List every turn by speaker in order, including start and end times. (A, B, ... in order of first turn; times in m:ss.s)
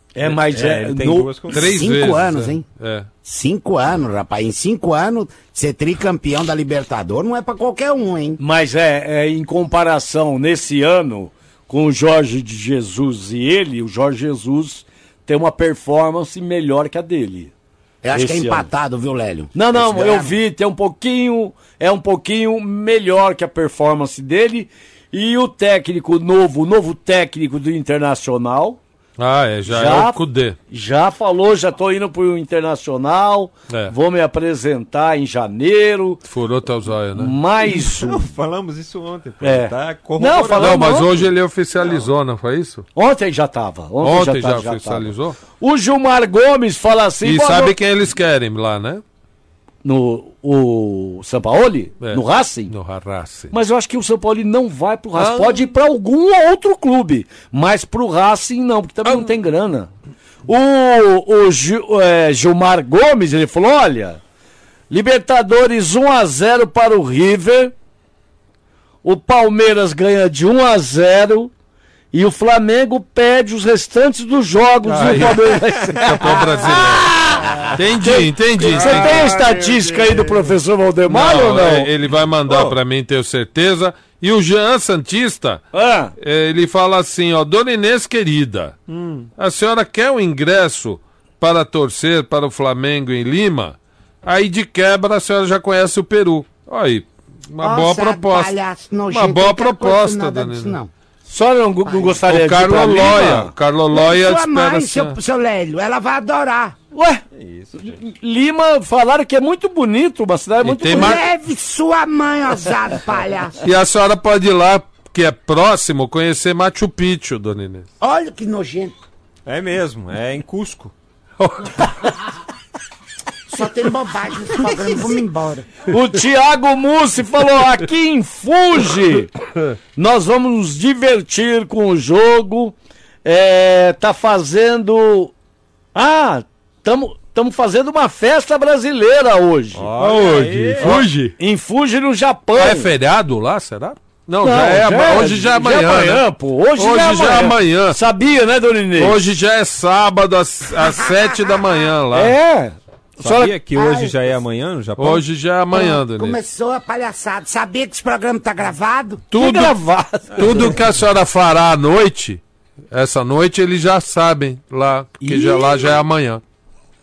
0:00.2-0:01.3 A
0:00.2-0:01.6 B
0:01.5-0:03.1 C
0:01.6-0:02.6 D
0:03.2-0:08.4 D
0:08.4-0:17.5 A
0:18.0-0:20.4 D
0:18.1-0:18.7 A
0:19.5-0:28.8 A
0:29.2-0:30.6 C
0:29.6-0:36.2 A
0:36.2-0:37.3 C
0:37.2-0:38.3 A
0:37.6-0:41.2 B
0:39.4-0:41.2 A
0:40.6-0:42.8 C
0:43.0-0:47.7 A
0:44.0-0:45.4 C
0:47.2-0:49.0 C
0:49.8-0:52.7 A
0:52.0-0:53.5 C
0:53.5-0:59.9 A
0:55.2-0:55.7 C
1:00.5-1:04.2 A
1:04.9-1:07.7 A
1:09.0-1:11.5 A
1:12.1-1:21.9 A
1:14.8-1:17.2 C
1:17.8-1:19.4 C
1:21.0-1:25.6 C
1:25.7-1:26.1 A
1:26.2-1:28.8 C
1:28.9-1:29.3 B
1:29.4-1:38.5 C
1:37.6-1:40.9 D
1:39.1-1:40.8 C
1:41.3-1:43.5 A
1:41.9-1:42.2 D
1:42.3-1:45.2 C
1:43.9-1:46.8 D
1:46.9-1:47.2 A
1:47.3-1:48.0 B
1:47.9-1:51.2 A
1:50.6-1:51.2 C
1:50.9-1:53.6 D
1:53.6-1:57.8 C
1:58.0-1:59.0 D
1:59.5-2:00.9 B
2:01.4-2:01.9 C
2:03.5-2:05.7 D
2:05.9-2:09.3 A
2:10.0-2:15.3 A
2:15.9-2:19.9 A
2:19.7-2:21.0 B
2:20.0-2:21.3 C
2:20.8-2:22.9 A
2:22.5-2:26.2 C
2:24.4-2:29.2 A
2:26.8-2:28.0 C
2:29.0-2:32.3 C
2:30.8-2:31.8 D
2:32.1-2:33.6 A
2:33.2-2:35.2 B
2:33.8-2:34.1 D
2:35.0-2:36.4 C
2:35.7-2:39.2 D
2:39.3-2:39.8 C
2:39.4-2:40.7 A
2:40.3-2:40.6 B
2:40.4-2:46.4 C
2:45.2-2:45.9 A